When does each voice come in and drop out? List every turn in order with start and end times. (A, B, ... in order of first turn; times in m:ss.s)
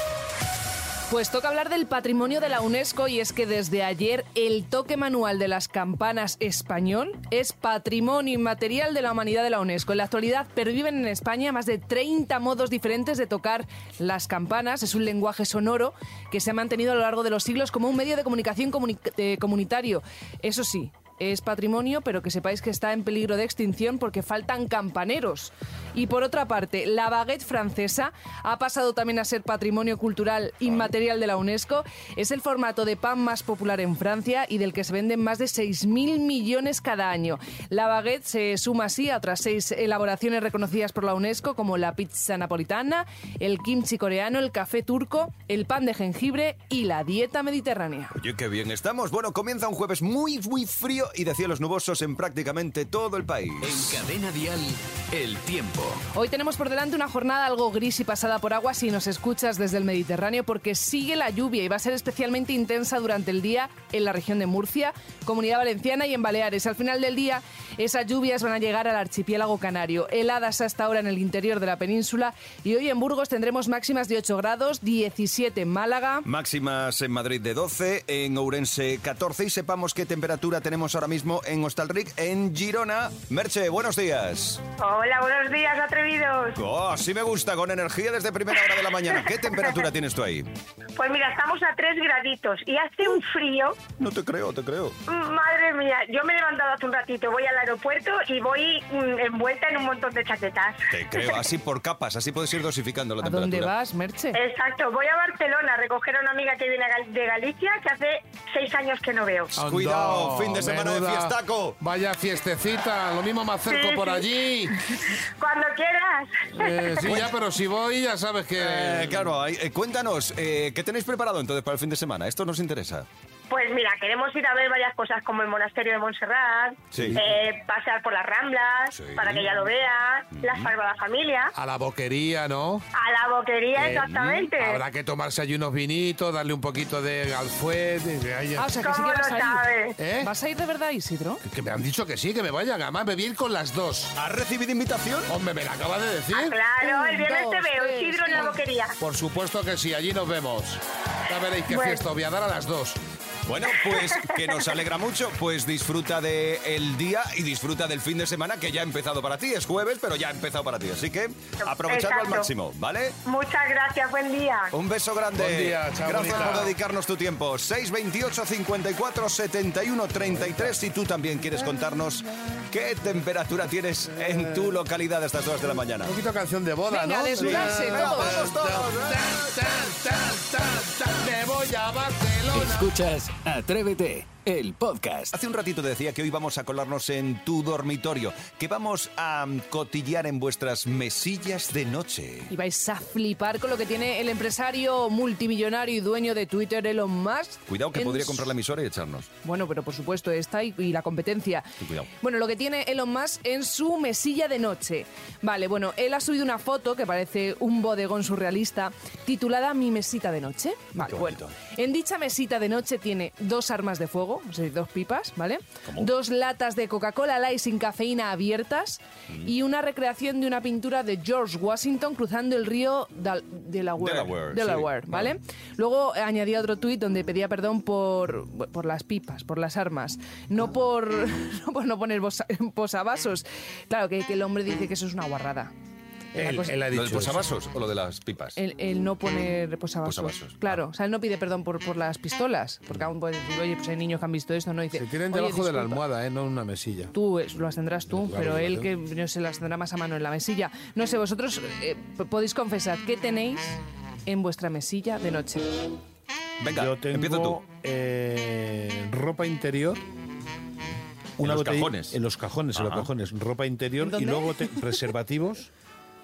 0:01.1-0:48.2 A
0:48.1-0:53.9 B
0:53.6-0:56.0 C
0:56.1-1:16.3 A
1:16.2-1:24.6 B
1:24.8-1:26.6 D
1:26.6-1:30.5 B
1:31.0-1:33.8 D
1:34.0-1:35.0 B
1:35.1-1:41.3 D
1:40.9-1:43.7 B
1:43.2-1:44.4 A
1:44.3-1:49.5 D
1:49.6-1:54.8 E
1:49.6-1:51.8 B
1:53.7-1:54.3 D
1:54.9-1:57.1 D
1:56.6-1:59.3 E
1:58.6-2:03.1 B
2:03.5-2:11.5 D
2:06.9-2:07.3 B
2:07.0-2:07.2 E
2:08.9-2:09.5 B
2:10.3-2:10.7 B
2:11.6-2:12.9 E
2:13.0-2:14.8 D
2:13.8-2:18.7 E
2:13.8-2:14.4 B
2:18.6-2:19.7 A
2:18.8-2:20.0 D
2:20.0-2:20.3 E
2:20.2-2:21.4 A
2:21.4-2:24.1 E
2:24.2-2:25.3 B
2:25.3-2:26.6 E
2:26.3-2:28.9 D
2:26.8-2:28.6 A
2:29.0-2:33.0 E
2:31.7-2:32.0 D
2:33.5-2:43.2 B
2:41.6-2:42.5 D
2:43.3-2:44.7 D
2:44.7-2:56.1 B
2:45.4-2:46.8 E
2:54.2-2:54.8 E
2:56.0-3:02.9 E
2:56.9-2:58.4 A
2:57.4-2:59.4 B
3:02.5-3:05.4 C
3:05.3-3:12.5 B
3:12.5-3:18.5 A
3:17.7-3:19.3 B
3:19.4-3:21.7 A
3:21.8-3:22.1 B
3:22.2-3:55.7 A
3:31.0-3:31.5 B
3:44.0-3:45.3 B
3:56.3-3:57.5 E
3:56.4-3:56.8 A
3:56.9-3:58.6 B
3:58.6-4:06.0 A
4:00.0-4:00.8 B
4:04.9-4:07.1 E
4:07.1-4:15.8 A
4:08.1-4:08.9 E
4:16.6-4:17.6 B
4:16.7-4:20.0 E
4:21.4-4:25.7 E
4:21.4-4:22.2 B
4:22.8-4:23.1 B
4:24.0-4:24.8 A